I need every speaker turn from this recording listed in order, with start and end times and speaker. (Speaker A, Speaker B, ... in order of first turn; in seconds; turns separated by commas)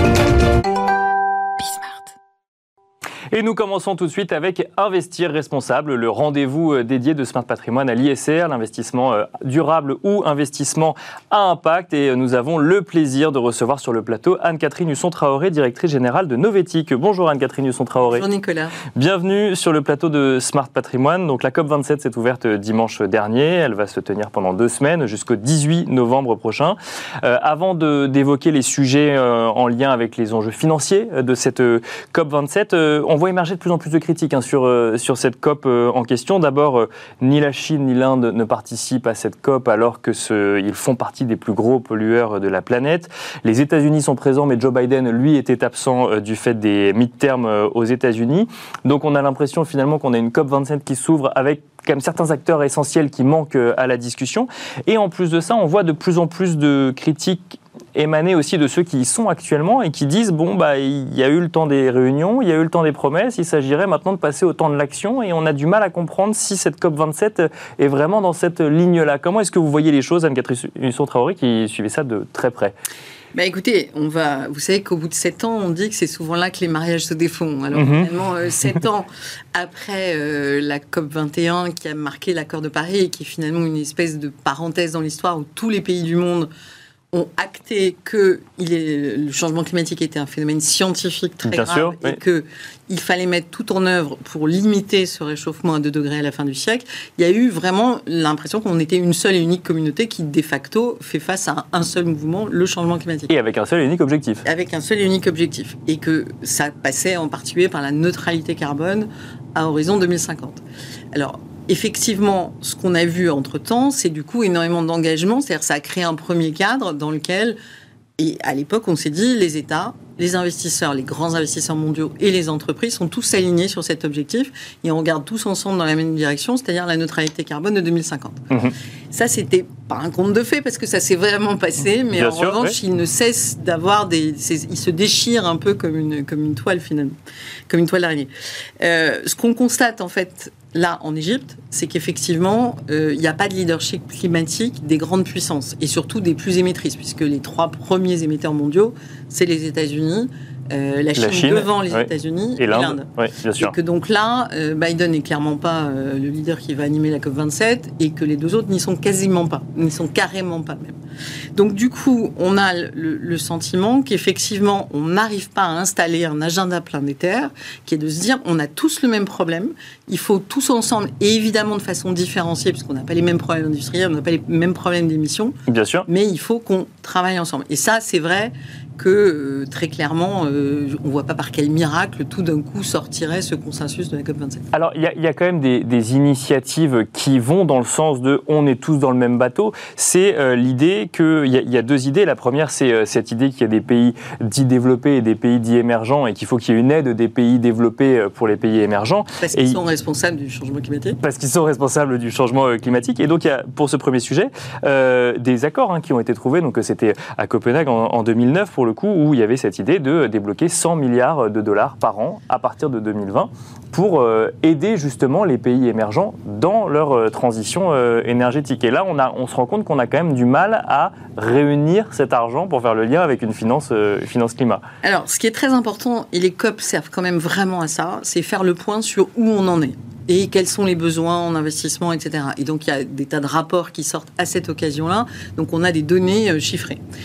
Speaker A: 3.3-18.2, Speaker B: 18.1-18.8, Speaker A: 18.9-72.7, Speaker B: 73.3-86.5, Speaker A: 77.7-78.1, Speaker B: 87.1-103.3, Speaker A: 91.5-92.2, Speaker A: 103.3-104.4, Speaker B: 104.5-110.6, Speaker B: 111.1-117.6, Speaker B: 118.2-128.4, Speaker B: 129.1-137.2, Speaker A: 132.2-132.7, Speaker B: 137.7-153.1, Speaker A: 151.2-153.7, Speaker B: 153.6-161.0, Speaker B: 161.6-175.6, Speaker A: 175.7-176.1, Speaker B: 176.1-184.7, Speaker A: 184.7-199.8, Speaker B: 199.4-201.2, Speaker A: 201.2-224.8, Speaker B: 225.0-237.0